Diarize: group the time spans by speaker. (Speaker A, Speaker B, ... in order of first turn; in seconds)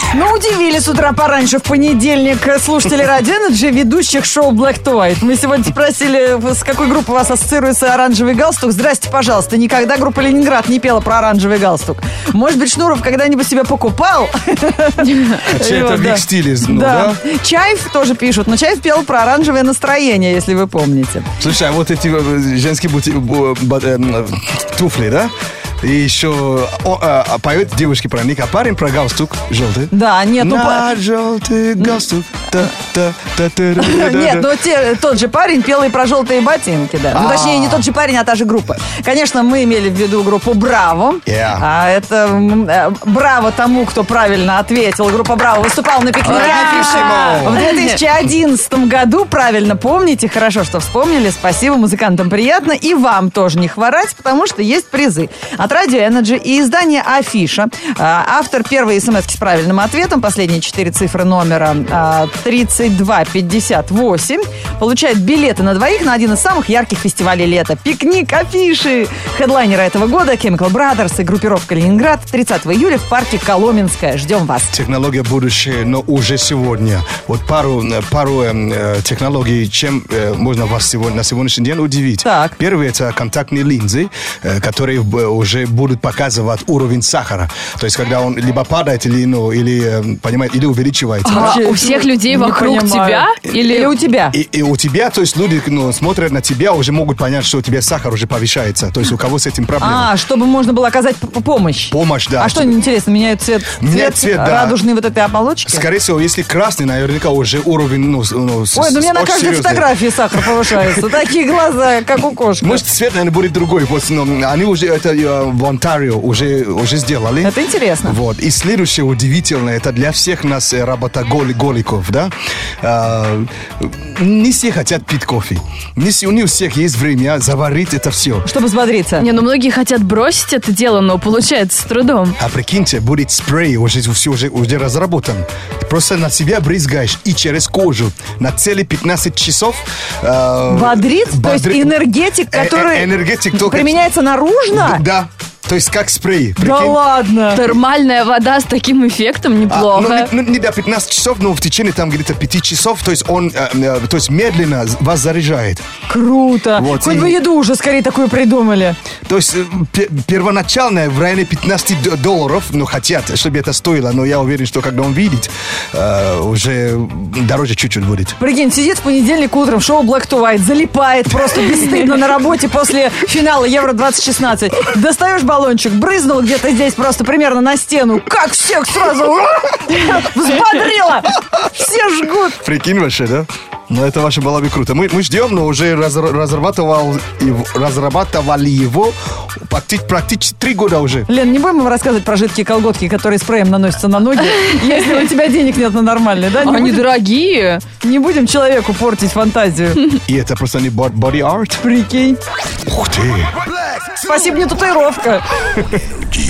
Speaker A: 0.1-21.3, 29.9-30.9, 33.8-74.7, 82.2-82.5, 91.2-94.4, 99.8-105.8, 108.7-112.8, 117.4-118.2, 128.4-129.2, 140.7-145.0, 146.6-147.6, 156.1-159.0, 168.4-182.6, 191.3-197.1, 198.0-200.0, 201.8-202.4, 204.1-205.4
Speaker B: 15.4-17.2, 21.4-34.5, 37.1-37.9, 41.2-41.6, 46.3-47.6, 74.7-91.6, 94.3-100.1, 101.9-102.8, 103.8-104.8, 105.7-111.0, 112.6-117.5, 118.0-128.5, 132.4-141.9, 142.5-144.0, 144.7-147.0, 149.7-155.8, 156.8-157.4, 159.3-168.3, 182.6-191.3, 200.2-201.8, 202.8-203.6
Speaker C: 46.3-47.4, 91.3-93.9, 129.2-132.4, 147.5-150.3, 194.7-195.2, 196.6-197.8